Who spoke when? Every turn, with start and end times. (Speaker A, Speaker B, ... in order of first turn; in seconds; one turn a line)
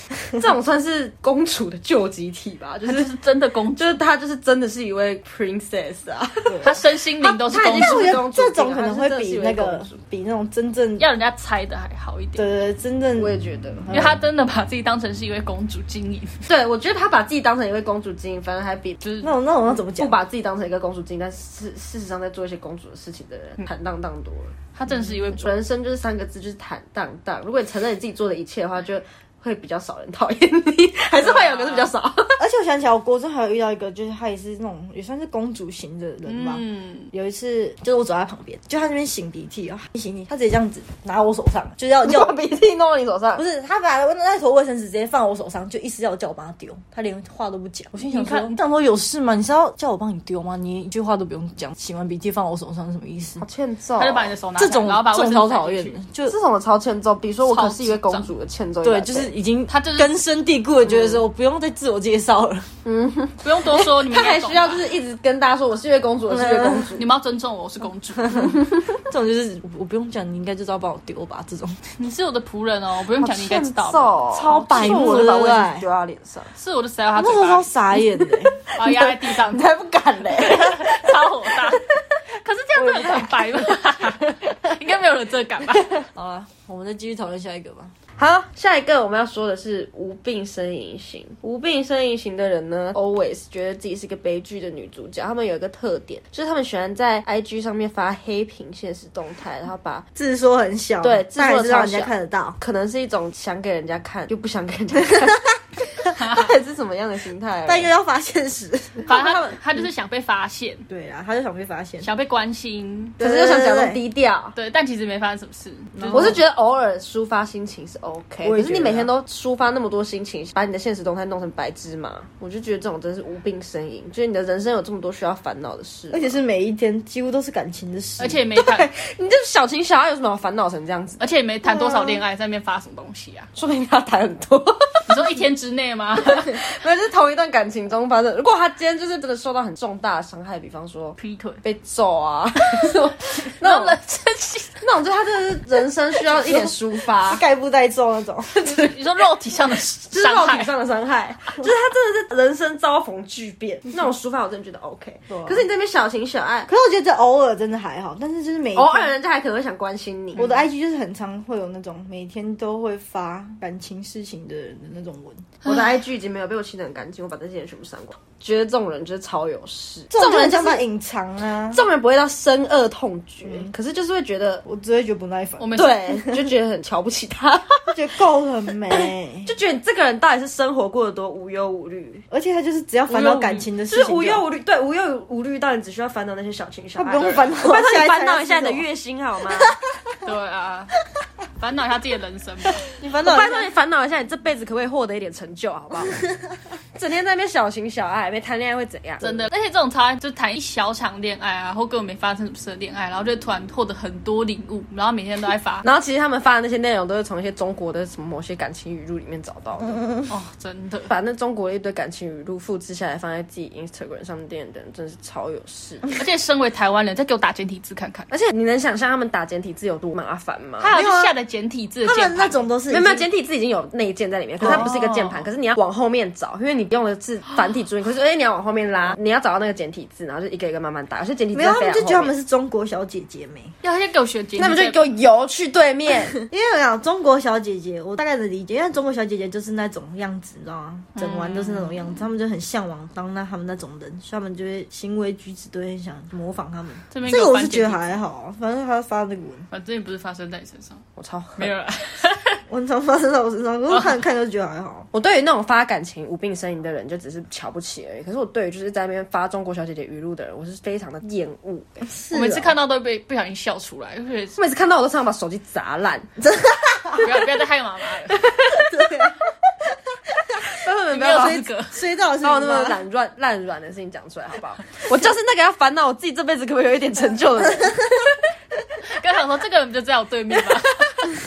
Speaker A: 0.3-3.1
Speaker B: 2.9-4.0
Speaker A: 3.8-10.0
Speaker B: 6.6-8.2
Speaker C: 7.6-11.0
Speaker B: 11.0-12.4
Speaker C: 12.4-14.2
Speaker A: 13.2-13.8
Speaker B: 13.9-16.4
Speaker A: 16.5-19.0
Speaker B: 19.0-19.3
Speaker C: 19.2-20.1
Speaker A: 19.7-32.4
Speaker B: 24.7-25.5
Speaker B: 31.2-31.9
Speaker C: 32.4-42.4
Speaker B: 36.2-37.1
Speaker A: 42.0-43.4
Speaker C: 43.4-53.4
Speaker B: 48.0-48.5
Speaker A: 53.4-54.3
Speaker B: 54.0-56.0
Speaker C: 54.5-56.3
Speaker A: 56.3-59.3
Speaker B: 57.4-58.3
Speaker C: 58.8-62.7
Speaker B: 59.7-60.2
Speaker A: 60.9-61.2
Speaker A: 62.8-67.0
Speaker B: 63.4-64.8
Speaker C: 66.3-66.9
Speaker B: 67.0-68.5
Speaker A: 68.4-68.9
Speaker C: 69.0-71.8
Speaker B: 72.0-75.3
Speaker A: 73.2-76.5
Speaker C: 74.3-75.8
Speaker B: 76.5-77.7
Speaker C: 77.2-78.6
Speaker A: 78.2-81.8
Speaker B: 78.8-79.7
Speaker B: 80.2-85.9
Speaker A: 82.7-84.5
Speaker C: 86.1-87.9
Speaker A: 88.2-100.0
Speaker C: 100.2-102.6
Speaker A: 101.0-107.9
Speaker B: 106.2-106.5
Speaker C: 107.6-109.5
Speaker B: 109.1-110.9
Speaker C: 110.9-112.1
Speaker B: 112.0-113.2
Speaker C: 113.2-114.0
Speaker A: 113.2-114.5
Speaker B: 114.5-116.4
Speaker C: 115.9-116.4
Speaker A: 116.1-126.4
Speaker C: 118.4-119.1
Speaker C: 126.1-128.4
Speaker B: 128.2-128.9
Speaker A: 128.5-132.2
Speaker B: 131.2-133.5
Speaker A: 133.5-135.2
Speaker B: 135.1-136.6
Speaker A: 136.2-144.0
Speaker B: 141.2-141.6
Speaker B: 143.5-144.8
Speaker A: 144.8-147.4
Speaker C: 147.2-148.6
Speaker B: 148.6-150.7
Speaker A: 150.1-156.7
Speaker C: 155.3-155.6
Speaker C: 156.7-159.1
Speaker A: 158.7-160.5
Speaker C: 160.4-165.5
Speaker A: 165.6-170.8
Speaker C: 170.1-171.8
Speaker A: 171.7-174.6
Speaker C: 174.6-176.4
Speaker B: 175.6-176.0
Speaker A: 175.7-178.0
Speaker C: 177.9-179.5
Speaker A: 178.9-182.2
Speaker C: 182.3-184.4
Speaker B: 183.1-183.7
Speaker A: 183.9-189.7
Speaker C: 186.9-188.8
Speaker B: 190.2-190.9
Speaker B: 191.6-192.9
Speaker C: 192.9-193.7
Speaker A: 193.2-196.2
Speaker A: 196.9-199.4
Speaker B: 199.2-205.8
Speaker A: 205.8-210.1
Speaker B: 210.3-211.1
Speaker A: 211.1-216.0
Speaker B: 216.1-218.3
Speaker A: 218.3-220.9
Speaker B: 220.8-222.7
Speaker C: 220.9-221.3
Speaker C: 222.0-223.2
Speaker A: 222.9-232.3
Speaker C: 224.6-224.9
Speaker B: 224.6-225.4
Speaker C: 231.5-233.7
Speaker B: 233.8-235.0
Speaker A: 234.6-236.4
Speaker C: 236.4-249.7
Speaker B: 241.2-242.2
Speaker B: 247.1-248.1
Speaker B: 249.7-251.0
Speaker A: 251.2-251.7
Speaker B: 251.6-252.6
Speaker C: 252.7-255.1
Speaker A: 255.1-262.2
Speaker C: 262.1-262.7
Speaker B: 262.3-264.6
Speaker A: 264.6-266.3
Speaker C: 266.5-267.2
Speaker B: 267.1-268.5
Speaker A: 268.3-269.1
Speaker C: 268.8-269.4
Speaker A: 270.7-271.7
Speaker B: 271.1-272.0
Speaker C: 271.8-273.0
Speaker A: 272.4-278.4
Speaker B: 279.1-281.3